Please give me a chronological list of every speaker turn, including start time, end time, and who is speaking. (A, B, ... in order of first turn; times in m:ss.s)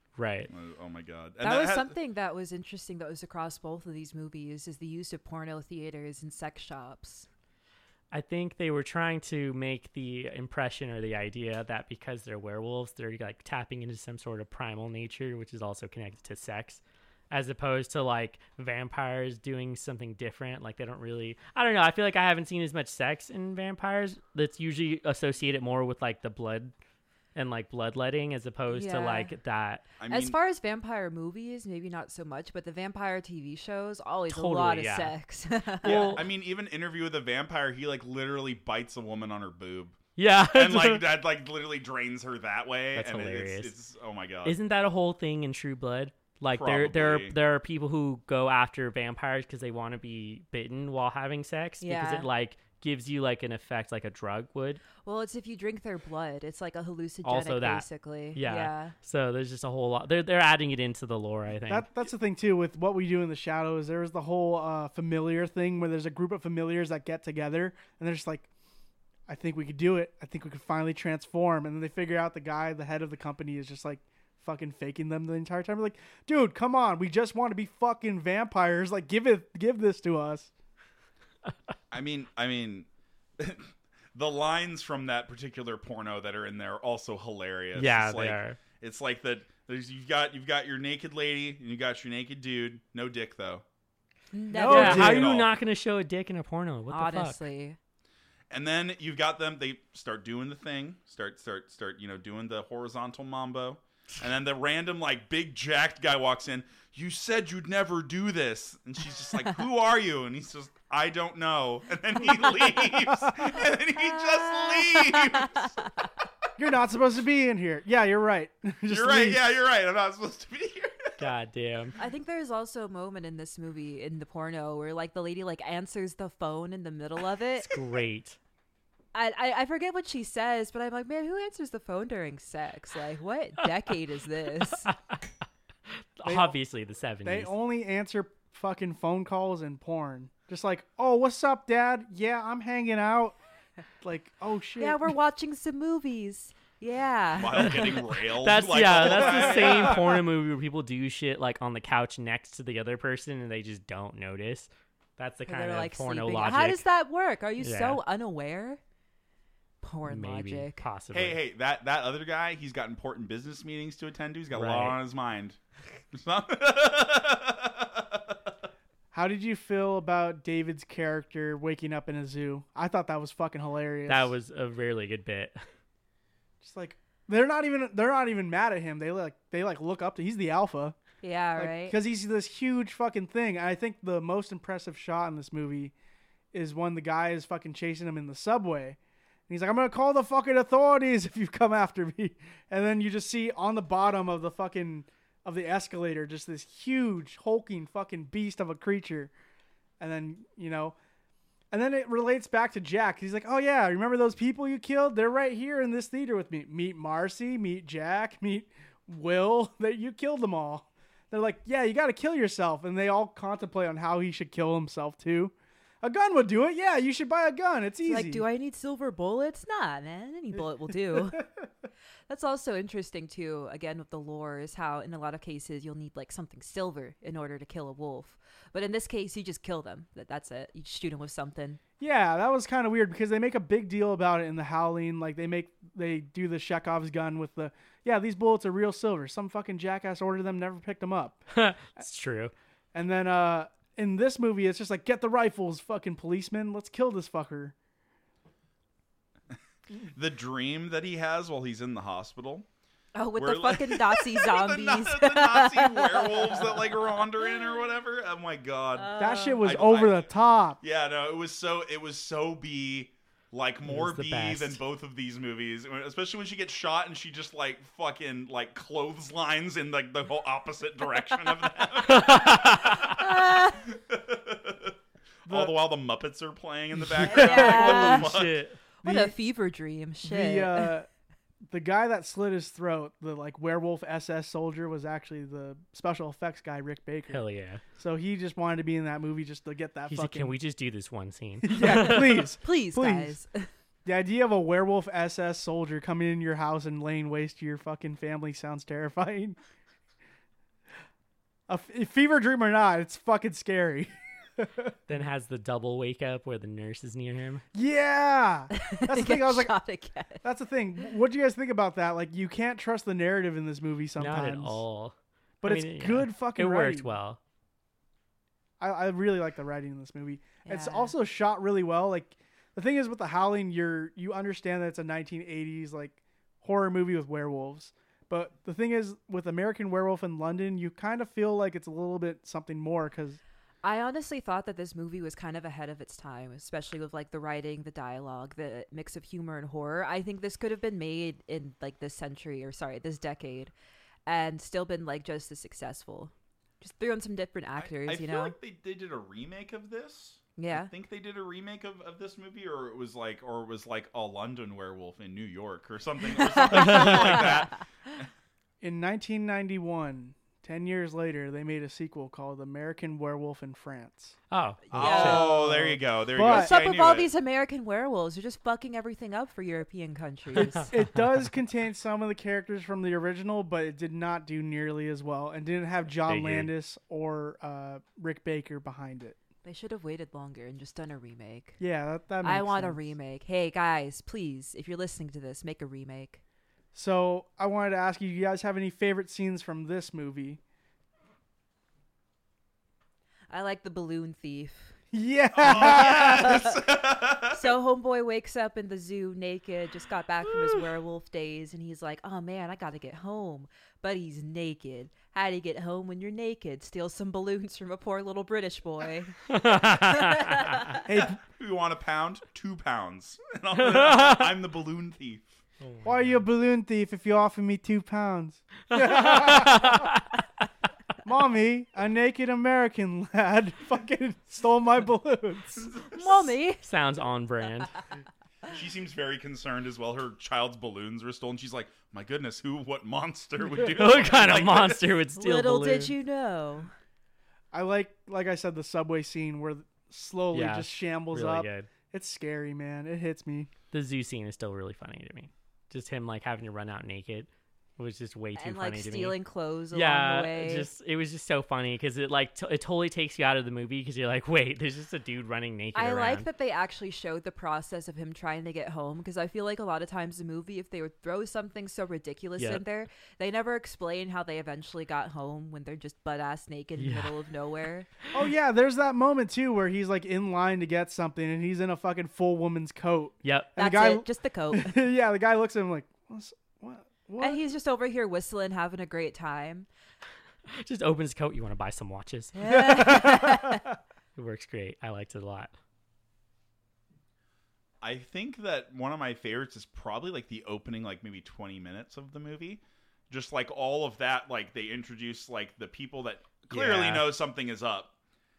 0:00.2-0:00.5 A
0:00.5-0:02.0 B
0:01.4-0:07.3 C
0:08.1-0:26.7 A
0:27.3-0:29.8 A
0:28.7-0:29.3 C
0:30.0-0:30.4 B
0:30.1-0:36.2 C
0:34.3-0:35.1 A
0:35.8-0:36.2 A
0:35.8-0:40.0 B
0:40.2-0:41.0 A
0:40.5-0:44.6 B
0:42.9-0:43.7 A
0:44.4-0:54.8 A
0:46.5-0:47.4 B
0:51.8-0:52.3 C
0:55.0-0:59.0 C
0:57.2-1:01.9 A
1:01.6-1:08.5 D
1:09.3-1:20.5 D
1:21.9-1:22.9 B
1:23.4-1:33.6 B
1:27.7-1:28.6 A
1:34.3-1:35.2 C
1:34.5-1:35.2 D
1:34.7-1:35.5 B
1:34.7-1:37.4 A
1:36.9-1:37.8 C
1:38.5-1:56.0 B
1:53.1-1:53.4 D
1:53.9-1:56.1 C
1:56.6-1:59.4 D
1:58.9-2:01.2 B
2:01.2-2:02.0 A
2:02.0-2:07.8 C
2:07.6-2:08.4 A
2:09.1-2:14.9 C
2:16.2-2:17.5 A
2:16.2-2:16.6 D
2:17.2-2:23.4 D
2:24.0-2:25.1 D
2:24.8-2:28.2 C
2:27.3-2:30.1 B
2:28.4-2:36.8 A
2:35.4-2:38.8 C
2:37.6-2:38.0 A
2:39.8-2:40.8 C
2:40.0-2:41.4 A
2:41.1-2:45.6 B
2:44.5-2:45.0 A
2:46.1-2:48.4 B
2:49.1-2:54.3 D
2:54.1-2:55.6 A
2:56.6-3:01.0 D
3:01.2-3:02.0 C
3:01.5-3:05.9 D
3:06.5-3:09.0 D
3:09.5-3:19.3 D
3:20.0-3:20.9 D
3:21.7-3:38.4 D
3:38.0-3:41.4 C
3:41.1-3:41.4 D
3:42.3-3:51.8 C
3:52.0-4:01.4 D
4:01.5-4:02.5 A
4:02.9-4:07.7 D
4:10.0-4:12.7 B
4:13.1-4:17.6 C
4:13.4-4:38.6 B
4:18.9-4:19.6 C
4:19.2-4:20.8 D
4:23.8-4:24.8 A
4:31.7-4:33.8 C
4:32.0-4:33.2 A
4:35.5-4:35.7 D
4:37.1-4:38.3 D
4:37.2-4:38.3 C
4:37.8-4:38.8 A
4:39.0-4:40.9 C
4:39.0-4:39.4 D
4:40.2-4:41.1 D
4:41.7-4:47.4 D
4:47.3-4:47.8 A
4:47.9-4:50.5 D
4:50.1-4:52.5 A
4:51.6-4:53.4 D
4:52.0-4:53.7 C
4:54.0-4:59.6 D
5:01.7-5:05.0 D
5:05.1-5:07.6 A
5:07.7-5:09.7 D
5:08.7-5:10.4 C
5:10.4-5:14.8 D
5:14.2-5:17.4 A
5:15.6-5:17.1 D
5:18.8-5:33.4 D
5:20.6-5:21.1 C
5:33.8-5:43.7 C
5:44.2-5:48.5 C
5:47.8-5:58.3 B
5:50.6-5:50.9 C
5:56.3-5:57.8 C
5:56.7-5:57.5 A
5:58.8-6:04.4 D
6:04.5-6:05.4 A
6:04.9-6:05.6 C
6:04.9-6:07.3 B
6:05.0-6:06.7 D
6:06.4-6:11.0 C
6:10.9-6:19.4 D
6:16.2-6:16.7 A
6:19.6-6:21.8 C
6:21.8-6:23.0 D
6:22.4-6:26.4 C
6:26.9-6:30.6 D
6:33.5-6:35.0 C
6:35.1-6:36.5 D
6:35.6-6:37.7 B
6:35.6-6:36.8 C
6:37.5-6:51.0 C
6:49.5-6:50.8 A
6:50.9-6:55.5 B
6:51.0-6:51.4 D
6:53.8-6:54.5 A
6:55.8-6:56.4 A
6:56.0-7:00.1 D
6:58.9-7:00.4 A
7:01.2-7:05.9 D
7:05.9-7:06.5 B
7:06.1-7:06.8 C
7:06.8-7:07.9 A
7:08.7-7:15.1 B
7:13.8-7:16.1 A
7:15.4-7:16.9 C
7:17.7-7:23.7 D
7:20.5-7:21.9 A
7:23.9-7:29.4 A
7:28.5-7:30.9 C
7:29.9-7:36.5 A
7:35.9-7:48.1 C
7:42.6-7:42.8 A
7:47.0-7:47.3 A
7:48.3-7:57.6 D
7:53.4-7:53.7 A
7:53.8-7:55.0 C
7:57.4-7:59.9 C
8:00.7-8:02.6 A
8:02.6-8:03.8 C
8:02.6-8:03.9 D
8:04.4-8:05.7 A
8:08.0-8:18.1 B
8:16.7-8:17.3 A